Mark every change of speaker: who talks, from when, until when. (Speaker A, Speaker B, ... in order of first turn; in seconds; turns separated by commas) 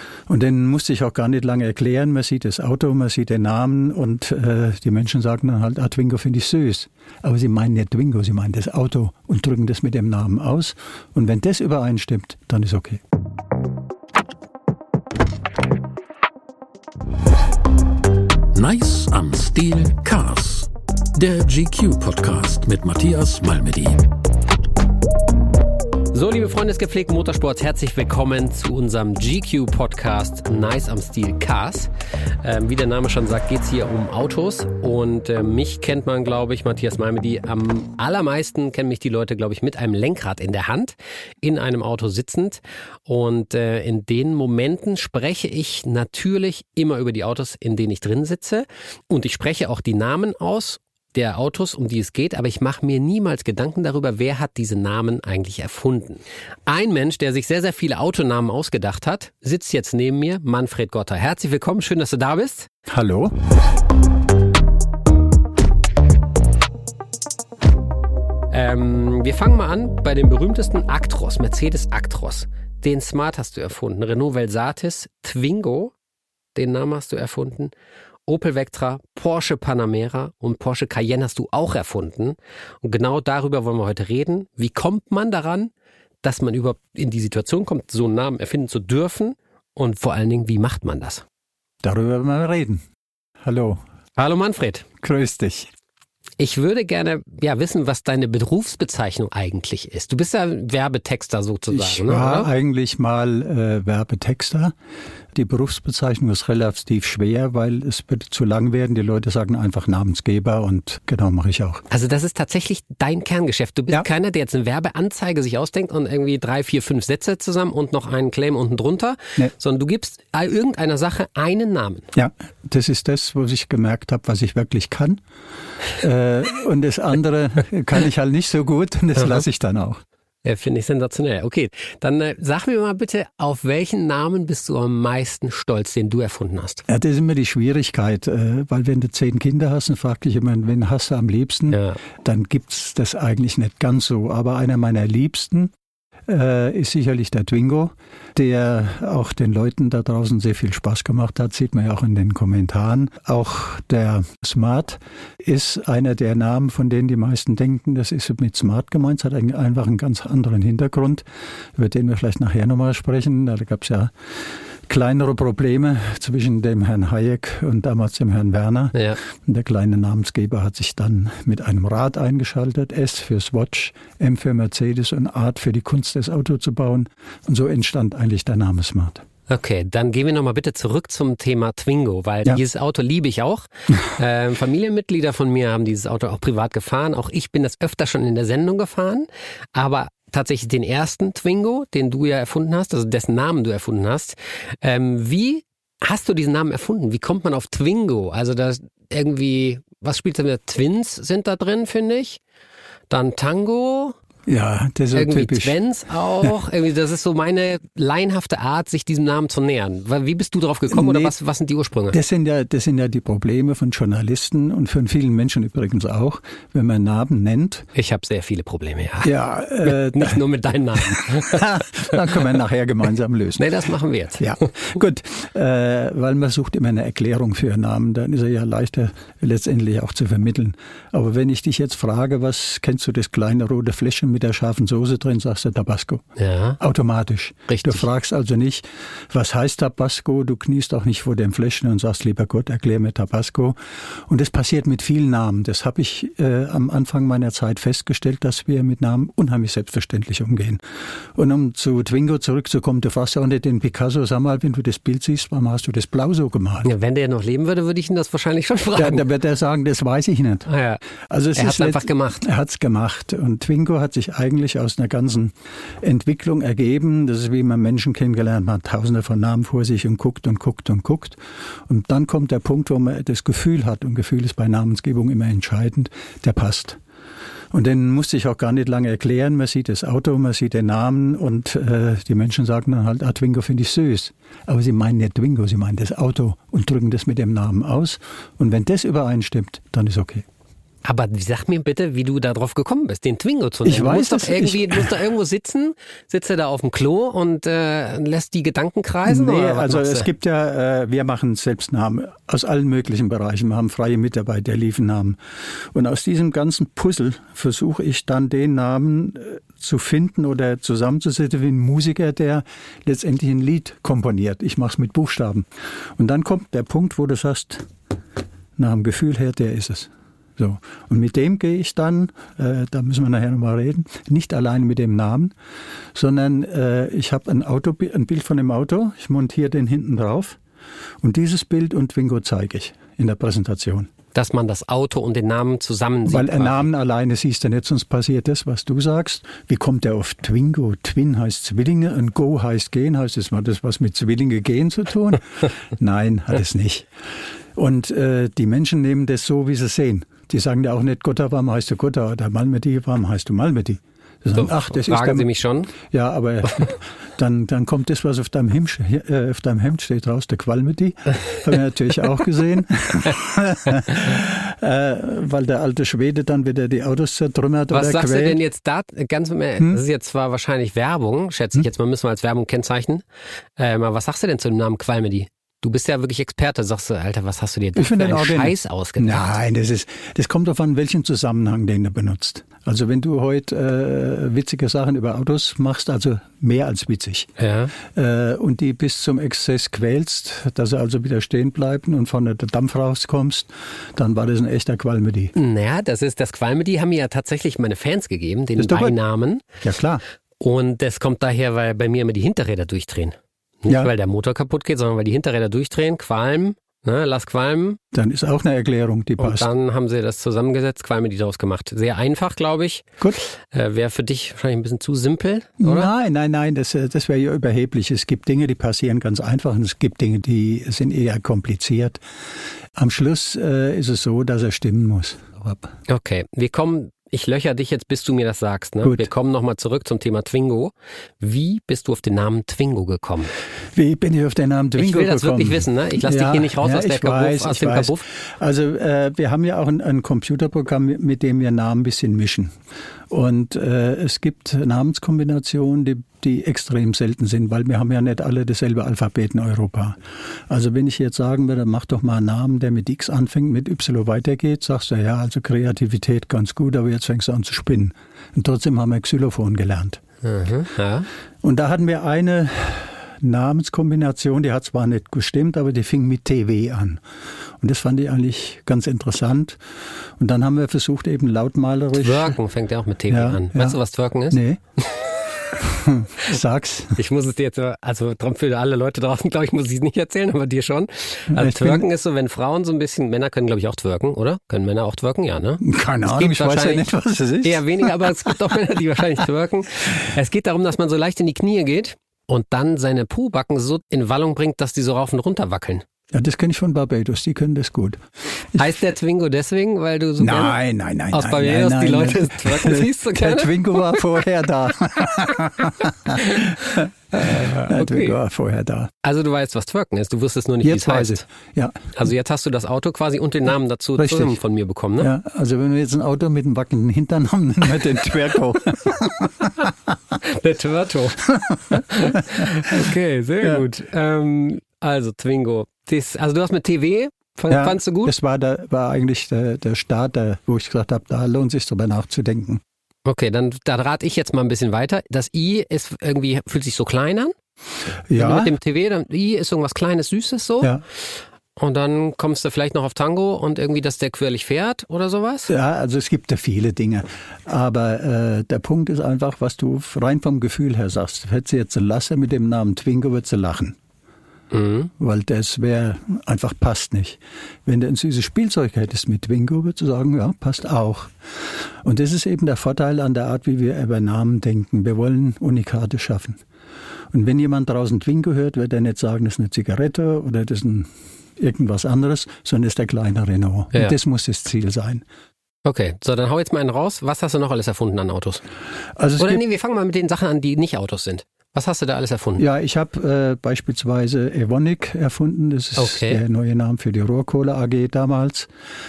Speaker A: 0.3-13.0, Speaker B: 18.5-24.1, Speaker C: 26.1-31.9, Speaker C: 32.4-62.7, Speaker A: 62.9-63.3, Speaker C: 68.5-75.9, Speaker C: 76.5-77.7, Speaker C: 78.3-85.7, Speaker C: 86.2-91.2, Speaker A: 91.8-92.8, Speaker A: 93.4-93.8, Speaker C: 94.2-94.8, Speaker A: 95.0-95.7, Speaker C: 96.4-102.5, Speaker A: 101.7-104.7, Speaker A: 105.3-111.9, Speaker C: 111.9-122.1, Speaker A: 122.1-125.2, Speaker A: 126.0-130.0, Speaker C: 129.2-129.4, Speaker C: 130.4-136.8, Speaker A: 136.9-145.7, Speaker C: 141.7-142.0, Speaker A: 146.3-161.2, Speaker A: 161.8-164.1, Speaker A: 164.9-179.2, Speaker C: 179.5-202.4, Speaker C: 203.1-204.2, Speaker A: 204.5-205.7, Speaker C: 205.1-212.2, Speaker A: 210.9-211.3, Speaker A: 212.1-217.9, Speaker C: 217.9-219.3, Speaker A: 219.2-220.4, Speaker C: 219.8-222.2, Speaker A: 221.1-223.7, Speaker C: 223.6-224.4, Speaker A: 224.4-236.2, Speaker C: 236.4-236.8, Speaker A: 236.8-250.8, Speaker C: 237.7-238.1, Speaker A: 251.3-256.9, Speaker C: 256.9-259.2, Speaker A: 258.9-260.7, Speaker C: 260.7-261.0, Speaker A: 261.3-277.0, Speaker C: 261.6-262.4, Speaker A: 277.7-290.4, Speaker C: 291.0-300.3, Speaker A: 293.9-295.1, Speaker A: 299.3-305.4, Speaker A: 305.9-315.6, Speaker A: 316.2-317.9, Speaker A: 318.8-325.5, Speaker A: 326.1-330.6, Speaker A: 331.2-334.1, Speaker C: 334.3-336.9, Speaker A: 336.3-347.1, Speaker A: 347.8-368.6, Speaker C: 354.6-355.9, Speaker C: 367.9-373.2, Speaker C: 373.8-379.6, Speaker A: 378.0-387.5, Speaker C: 387.6-387.9, Speaker A: 388.0-395.6, Speaker C: 395.6-399.6, Speaker A: 398.8-399.2, Speaker A: 399.8-400.2, Speaker C: 400.6-408.0, Speaker A: 408.1-409.7, Speaker C: 409.4-416.1, Speaker A: 415.8-422.2, Speaker A: 423.0-425.9, Speaker C: 426.1-433.5, Speaker A: 429.0-429.3, Speaker A: 433.9-442.7, Speaker C: 435.0-438.2, Speaker A: 443.3-450.2, Speaker A: 450.7-460.2, Speaker C: 460.4-461.3, Speaker A: 461.6-467.2, Speaker A: 467.8-469.8, Speaker A: 470.4-472.6, Speaker C: 472.2-475.4, Speaker A: 473.3-474.0, Speaker A: 474.5-474.8, Speaker A: 475.8-477.2, Speaker C: 477.2-487.1, Speaker A: 481.5-482.1, Speaker A: 485.8-488.6, Speaker C: 487.6-496.0, Speaker A: 496.3-498.2, Speaker C: 498.8-500.8, Speaker A: 500.4-509.1, Speaker C: 501.3-504.3, Speaker C: 506.4-506.7, Speaker C: 507.3-508.4, Speaker C: 509.2-511.4, Speaker A: 510.8-512.0, Speaker C: 512.1-515.3, Speaker A: 514.2-514.5, Speaker A: 515.2-519.8, Speaker C: 520.4-528.3, Speaker A: 521.9-523.0, Speaker A: 527.7-532.8, Speaker C: 533.2-537.5, Speaker A: 538.3-538.7, Speaker C: 538.4-540.9, Speaker C: 541.8-545.7, Speaker A: 545.7-554.0, Speaker C: 554.7-555.1, Speaker A: 555.2-561.3, Speaker A: 562.0-566.6, Speaker A: 567.3-575.2, Speaker C: 575.8-578.6, Speaker A: 579.2-579.6, Speaker C: 579.4-582.6, Speaker A: 582.6-588.7, Speaker C: 586.0-586.4